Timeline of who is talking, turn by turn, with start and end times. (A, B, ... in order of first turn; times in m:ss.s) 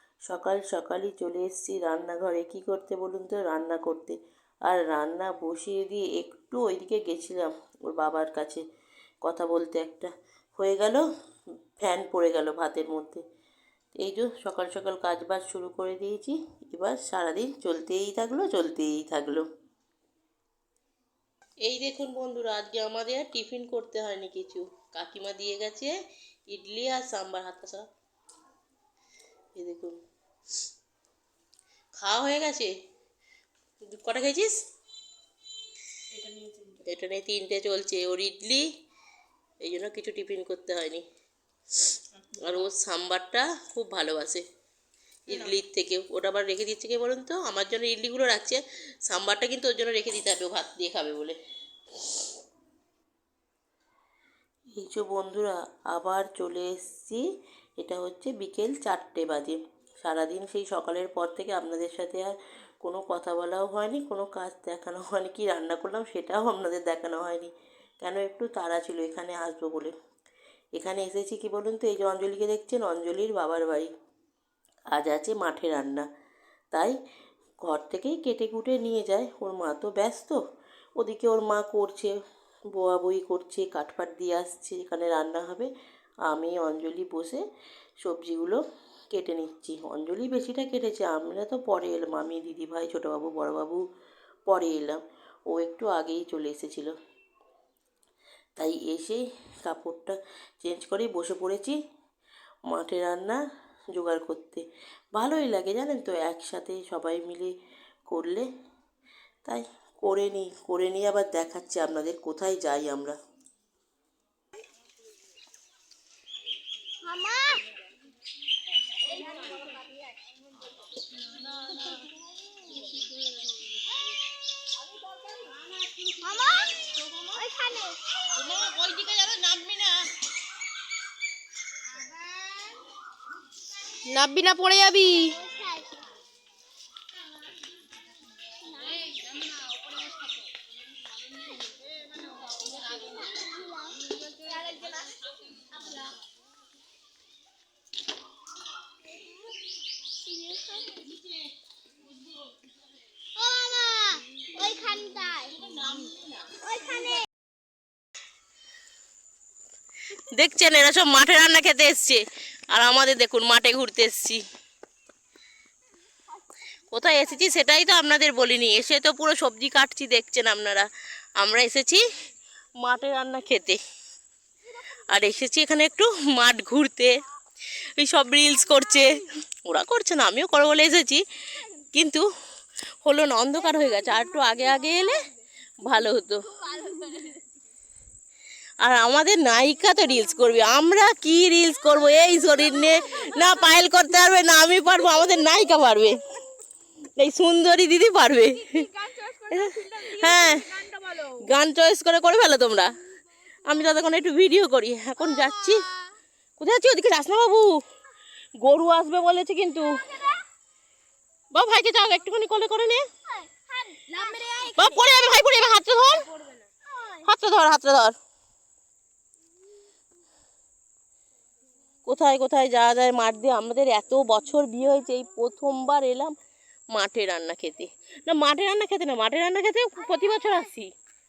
0:00.3-0:08.6 A
0:09.2-0:11.0 A
0:11.8-0:13.2 A
0:14.0-0:19.5 A
0:21.6-0:26.0 A
0:26.5-0:27.8 A
0:29.6-0:30.0 A
0:32.0-0:32.8 A
0:33.8-0:34.6 A
0:36.2-0:36.8 B
0:36.8-0:38.7 A
0:39.6-0:41.0 A
0:42.4-0:44.4 A
0:45.3-0:51.4 A
0:54.8-0:57.2 A
0:57.8-1:09.9 A
1:10.8-1:13.9 A
1:14.9-1:16.1 A
1:17.6-1:20.4 A
1:21.0-1:22.1 A
1:22.7-1:25.7 A
1:26.3-1:27.4 A
1:28.0-1:28.6 A
1:29.1-1:33.8 A
1:34.5-1:36.9 A
1:38.6-1:41.8 A
1:42.7-1:43.4 A
1:44.0-1:47.5 A
1:48.1-1:48.5 A
1:49.5-1:53.2 A
1:57.0-1:57.7 C
2:06.1-2:08.5 C
2:09.1-2:09.6 B
2:14.2-2:14.9 B
2:15.1-2:16.0 C
2:19.1-2:19.7 B
2:22.9-2:24.0 C
2:30.2-2:31.0 C
2:33.4-2:35.9 C
2:36.5-2:37.2 C
2:40.3-2:44.4 A
2:46.9-2:50.9 A
2:51.4-2:52.0 A
2:52.8-2:53.8 A
2:55.1-2:57.1 A
2:58.0-3:01.2 A
3:01.9-3:02.3 A
3:03.0-3:05.2 A
3:05.8-3:06.9 A
3:08.8-3:16.2 A
3:17.2-3:22.9 A
3:18.7-3:21.3 B
3:23.6-3:25.9 A
3:26.6-3:27.8 A
3:28.6-3:30.1 A
3:31.5-3:33.0 A
3:33.3-3:34.8 C
3:34.8-3:36.3 A
3:36.9-3:37.2 C
3:37.2-3:38.2 A
3:42.1-3:46.4 A
3:46.9-3:50.9 A